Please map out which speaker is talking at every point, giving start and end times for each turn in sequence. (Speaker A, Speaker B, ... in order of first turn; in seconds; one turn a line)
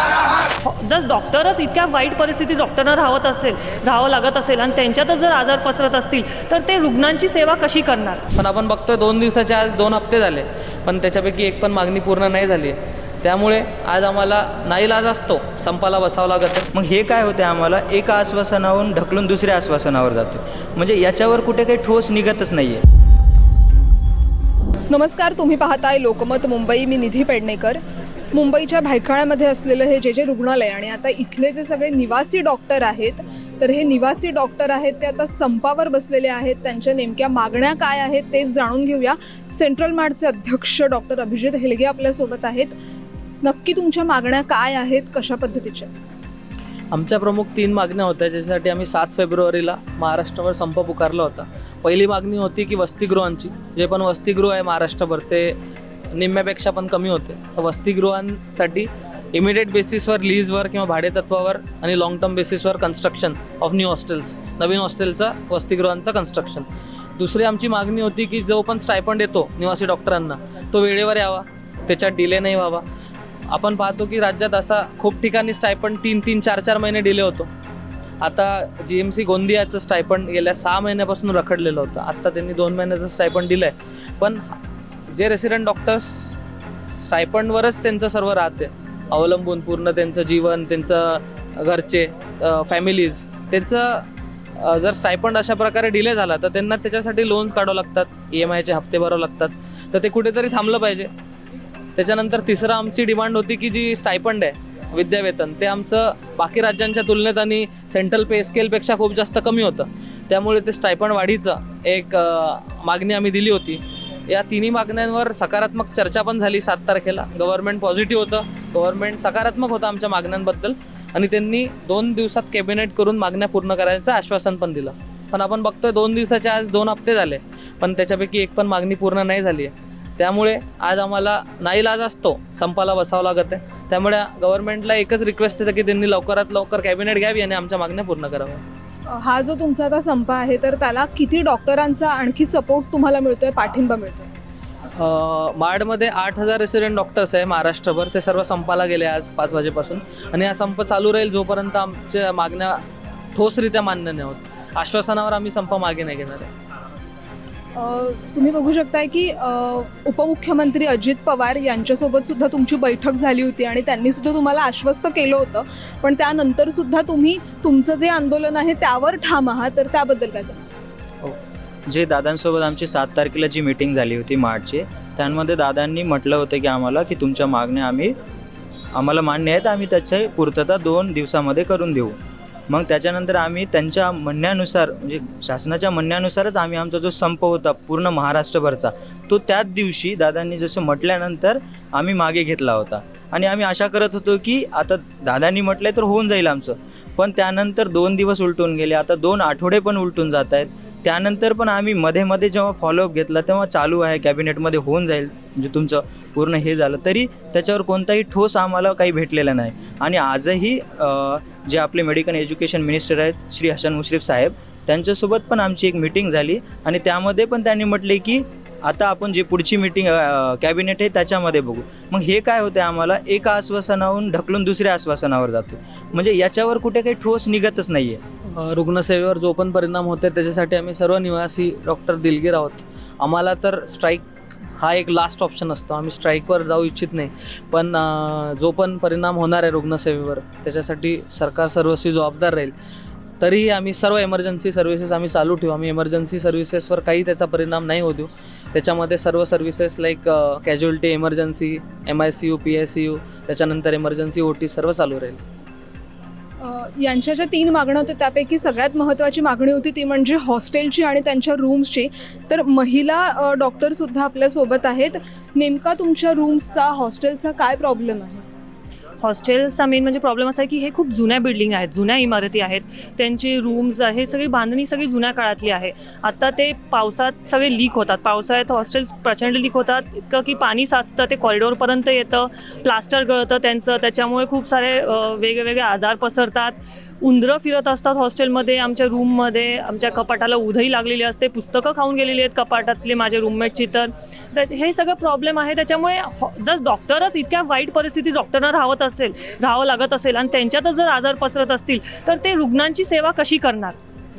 Speaker A: 0.6-8.2
Speaker B: 8.3-16.7
Speaker C: 16.7-22.8
Speaker D: 24.9-27.8
Speaker D: 28.3-42.7
Speaker D: 43.4-45.9
Speaker B: 46.9-55.5
Speaker B: 56.1-72.8
Speaker B: 73.5-77.5
Speaker B: 78.2-84.5
Speaker B: 85.1-86.4
Speaker B: 87.0-94.0
Speaker B: 94.6-101.1
Speaker B: 102.0-138.6
Speaker D: 139.1-144.3
Speaker B: 144.9-152.8
Speaker B: 153.3-156.5
Speaker D: 157.8-170.6
Speaker C: 171.9-178.1
Speaker C: 178.9-182.2
Speaker C: 182.7-228.2
Speaker B: 228.5-242.7
Speaker B: 243.4-255.4
Speaker D: 256.6-268.4
Speaker A: 269.2-303.9